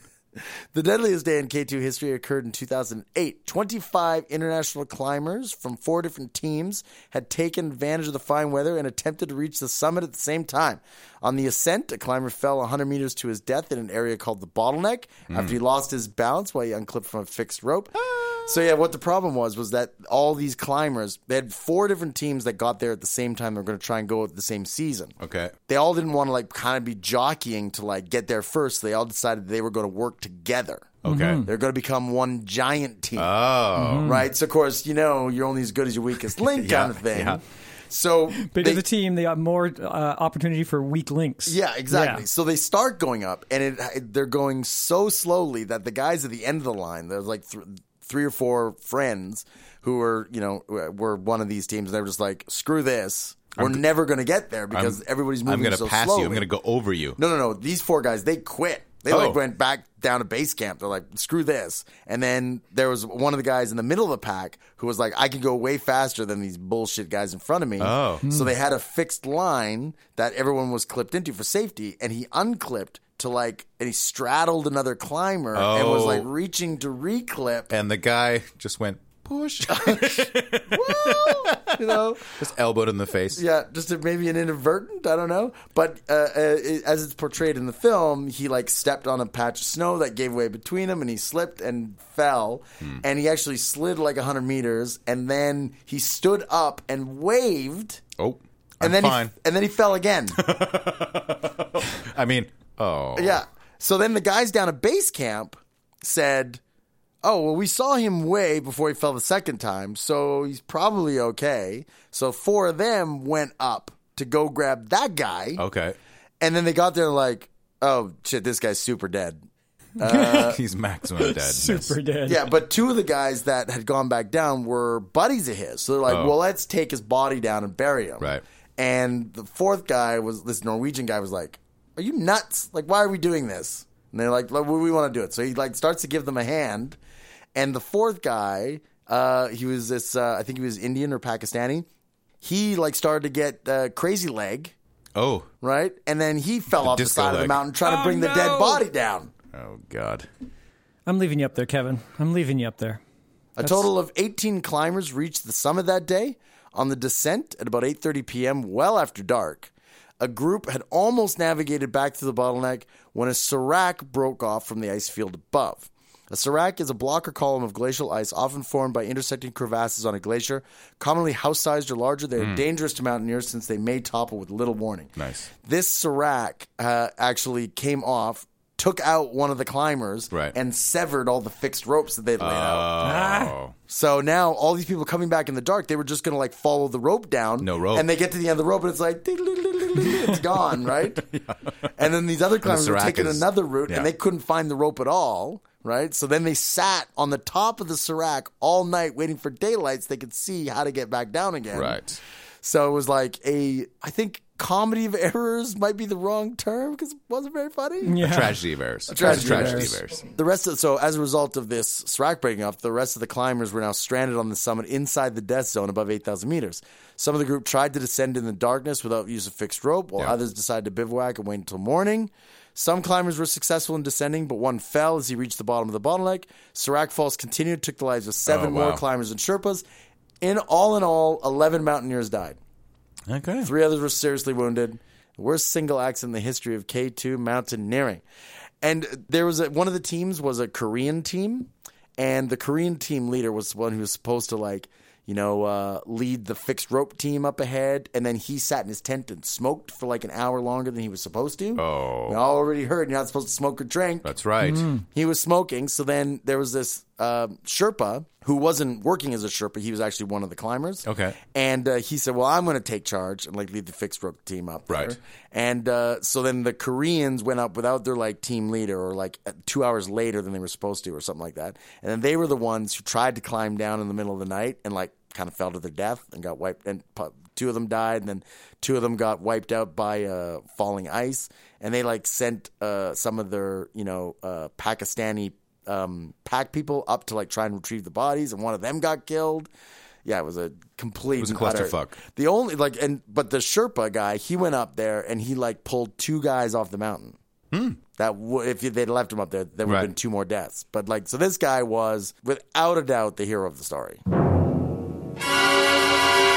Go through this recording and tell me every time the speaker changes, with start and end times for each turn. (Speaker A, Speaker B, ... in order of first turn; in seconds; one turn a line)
Speaker A: 0.7-25.1
Speaker B: 15.3-15.6
Speaker B: 25.2-25.5
Speaker A: 25.7-33.3
Speaker B: 31.0-31.4
Speaker C: 31.1-31.5
Speaker B: 33.2-34.1
Speaker C: 33.7-34.2
Speaker A: 34.0-38.8
Speaker B: 36.5-37.4
Speaker C: 38.3-42.2
Speaker A: 41.5-56.5
Speaker B: 53.5-53.8
Speaker B: 54.7-57.2
Speaker A: 57.2-77.7
Speaker B: 59.1-59.4
Speaker B: 67.8-68.2
Speaker C: 68.2-68.5
Speaker B: 75.5-76.3
Speaker B: 77.7-83.4
Speaker A: 79.7-82.4
Speaker A: 83.3-98.0
Speaker B: 98.2-99.3
Speaker A: 98.8-100.4
Speaker B: 100.3-103.4
Speaker A: 103.2-106.6
Speaker A: 107.2-115.6
Speaker B: 115.6-116.0
Speaker A: 116.4-119.4
Speaker A: 120.0-120.6
Speaker C: 120.0-120.5
Speaker B: 120.3-122.0
Speaker C: 121.1-122.5
Speaker A: 122.3-137.0
Speaker B: 126.1-126.3
Speaker A: 137.5-141.9
Speaker A: 142.4-144.7
Speaker B: 145.1-145.5
Speaker A: 145.6-149.3
Speaker B: 146.8-147.6
Speaker C: 147.8-148.8
Speaker B: 149.5-150.3
Speaker C: 151.1-153.0
Speaker A: 153.6-175.1
Speaker C: 153.6-153.9
Speaker B: 172.4-172.6
Speaker B: 175.2-175.5
Speaker A: 175.6-182.9
Speaker B: 182.4-183.8
Speaker C: 183.0-183.5
Speaker A: 183.9-191.3
Speaker B: 187.6-188.1
Speaker B: 191.2-191.9
Speaker A: 191.9-202.0
Speaker B: 192.6-194.1
Speaker B: 201.7-202.2
Speaker A: 202.6-208.2
Speaker C: 208.0-208.6
Speaker B: 208.2-210.3
Speaker A: 209.1-229.8
Speaker C: 209.2-209.9
Speaker B: 228.4-229.0
Speaker A: 230.4-232.6
Speaker B: 233.3-233.7
Speaker A: 233.6-238.2
Speaker A: 238.8-254.3
Speaker B: 251.8-252.4
Speaker B: 254.2-254.9
Speaker C: 254.6-255.0
Speaker A: 255.1-289.7
Speaker B: 261.0-261.4
Speaker B: 264.9-265.1
Speaker A: 290.2-297.4
Speaker B: 291.4-292.2
Speaker B: 297.7-298.0
Speaker A: 298.2-304.2
Speaker B: 299.8-300.1